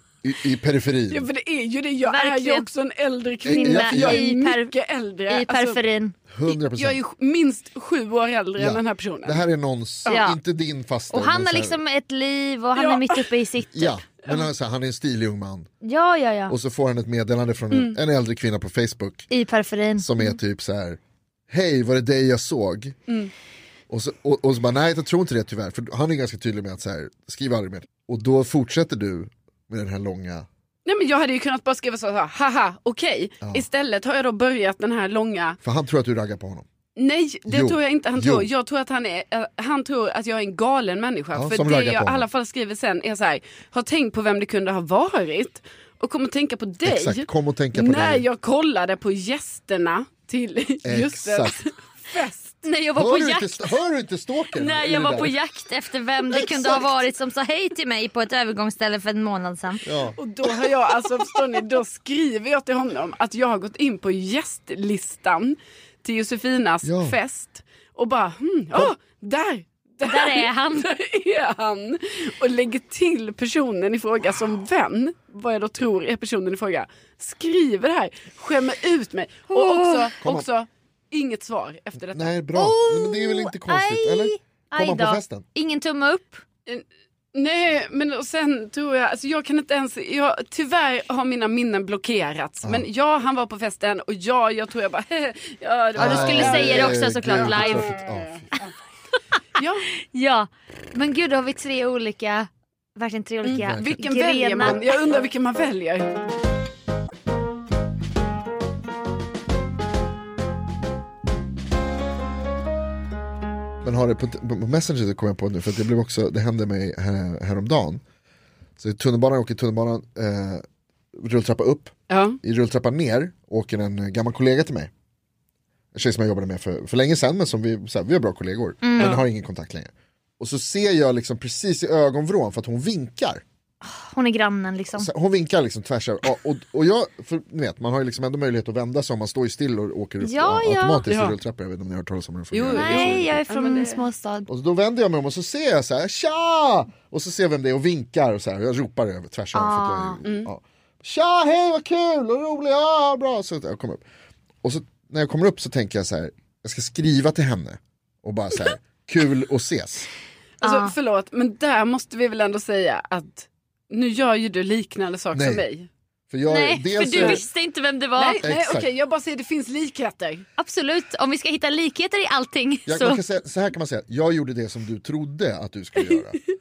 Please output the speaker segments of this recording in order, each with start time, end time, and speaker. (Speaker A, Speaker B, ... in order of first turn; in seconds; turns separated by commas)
Speaker A: 0.2-1.3, Speaker B: 1.1-5.8, Speaker C: 2.1-2.7, Speaker A: 3.4-4.2, Speaker C: 3.5-4.7, Speaker C: 5.3-6.2, Speaker A: 6.3-7.0, Speaker B: 6.5-9.4, Speaker A: 8.6-11.8, Speaker C: 10.1-10.4, Speaker C: 11.1-14.0, Speaker B: 12.8-13.3, Speaker A: 13.7-15.7, Speaker C: 15.8-16.5, Speaker A: 16.5-19.3, Speaker B: 17.7-18.0, Speaker C: 19.3-20.2, Speaker A: 20.0-22.9, Speaker A: 23.9-30.5, Speaker B: 30.9-35.6, Speaker A: 35.6-36.6, Speaker B: 37.0-52.6, Speaker A: 37.5-38.5, Speaker A: 41.3-42.2, Speaker A: 46.8-48.2, Speaker A: 50.8-51.6, Speaker C: 52.6-53.8, Speaker A: 52.9-55.3, Speaker C: 54.5-59.8, Speaker A: 56.4-56.7, Speaker A: 59.8-60.8, Speaker B: 60.2-82.3, Speaker A: 66.8-67.2, Speaker C: 70.0-70.9, Speaker C: 79.5-80.1, Speaker A: 80.2-80.5, Speaker A: 82.1-85.5, Speaker C: 82.5-86.4, Speaker B: 86.7-98.7, Speaker A: 96.0-98.5, Speaker C: 96.0-97.9, Speaker B: 99.5-99.9, Speaker C: 100.0-104.8, Speaker B: 103.4-106.2, Speaker A: 103.6-103.9, Speaker A: 113.8-118.0, Speaker A: 118.8-124.9, Speaker B: 122.1-122.4, Speaker A: 125.9-133.4, Speaker C: 128.8-129.2, Speaker C: 133.8-135.1, Speaker A: 135.0-143.4, Speaker C: 140.2-141.1, Speaker B: 141.1-141.3, Speaker B: 142.5-144.0, Speaker C: 142.7-144.5, Speaker A: 144.5-154.0, Speaker C: 149.5-150.2, Speaker A: 154.6-160.1, Speaker C: 160.6-160.9, Speaker B: 160.6-165.9, Speaker A: 165.3-165.6, Speaker A: 166.3-167.4, Speaker C: 166.5-168.5, Speaker B: 167.1-167.4, Speaker B: 168.2-170.4, Speaker A: 168.4-168.9, Speaker C: 170.6-173.2, Speaker A: 172.9-176.4